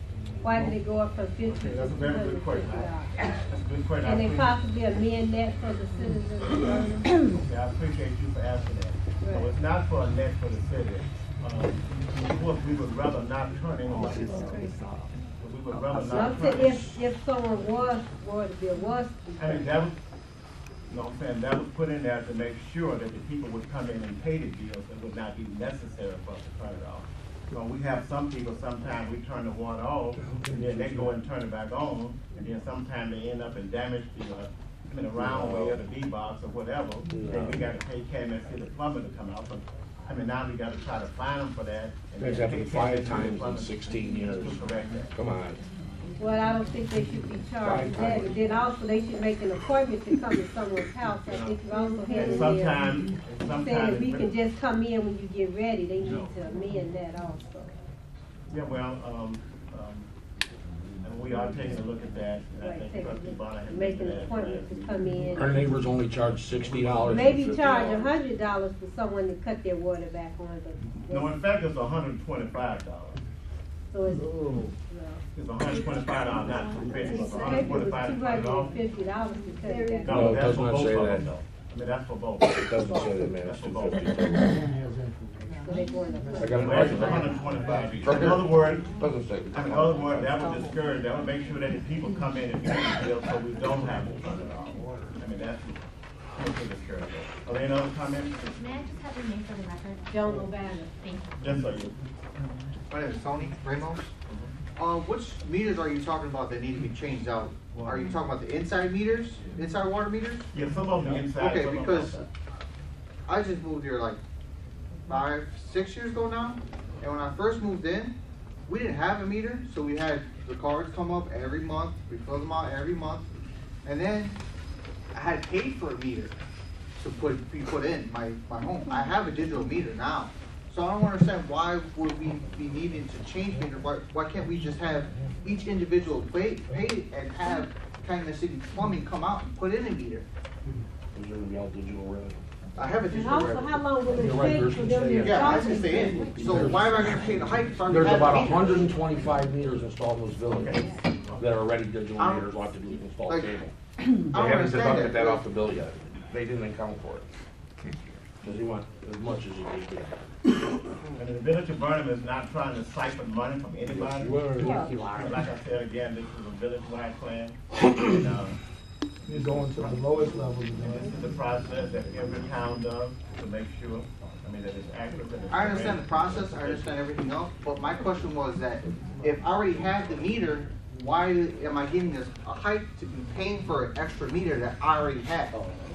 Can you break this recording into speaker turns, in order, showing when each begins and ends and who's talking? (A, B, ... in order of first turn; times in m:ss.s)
0:00.4-0:03.1 A
0:01.5-0:03.0 B
0:03.5-0:04.6 B
0:04.0-0:07.1 A
0:07.3-0:14.8 B
0:09.2-0:09.5 A
0:15.4-0:16.9 B
0:15.9-0:19.7 A
0:19.4-0:20.0 B
0:20.9-0:45.1 B
0:30.2-0:31.0 C
0:35.2-0:35.8 C
0:37.1-0:37.6 C
0:42.2-0:44.6 C
0:45.1-0:45.6 C
0:46.2-0:52.8 A
0:47.6-0:48.3 C
0:51.2-0:54.3 B
0:53.6-0:57.7 A
0:58.5-1:00.1 B
1:01.0-1:05.2 B
1:02.6-1:05.6 A
1:05.3-1:08.1 C
1:06.7-1:07.0 B
1:07.0-1:11.3 A
1:11.1-1:13.2 B
1:13.9-1:15.2 A
1:15.3-1:18.8 B
1:17.3-1:20.2 A
1:20.0-1:24.4 B
1:20.0-1:21.3 C
1:22.6-1:24.6 C
1:24.7-1:25.5 D
1:25.6-1:27.7 A
1:26.4-1:27.4 C
1:26.5-1:28.9 B
1:27.9-1:30.4 C
1:29.5-1:38.4 B
1:38.1-1:41.7 E
1:40.1-1:40.9 A
1:41.4-1:41.9 B
1:42.9-1:44.1 F
1:44.2-1:44.5 B
1:44.8-1:50.5 F
1:50.5-1:52.2 B
1:51.3-1:52.2 F
1:53.2-1:54.2 F
1:55.1-1:58.1 F
1:58.6-2:03.3 F
2:03.8-2:04.4 F
2:05.1-2:06.3 F
2:07.0-2:20.2 F
2:21.1-2:22.4 C
2:22.8-2:23.8 F
2:23.1-2:26.3 A
2:24.1-2:33.7 C
2:25.2-2:28.9 F
2:30.5-2:31.3 B
2:32.2-2:32.6 F
2:33.2-2:33.5 F
2:34.3-2:35.4 F
2:34.3-2:37.2 C
2:38.4-2:40.1 C
2:41.2-2:44.5 B
2:43.9-2:44.9 C
2:44.5-2:44.8 D
2:45.0-2:48.6 B
2:49.3-2:51.0 D
2:49.5-2:50.0 B
2:50.8-2:56.8 B
2:55.5-3:05.5 F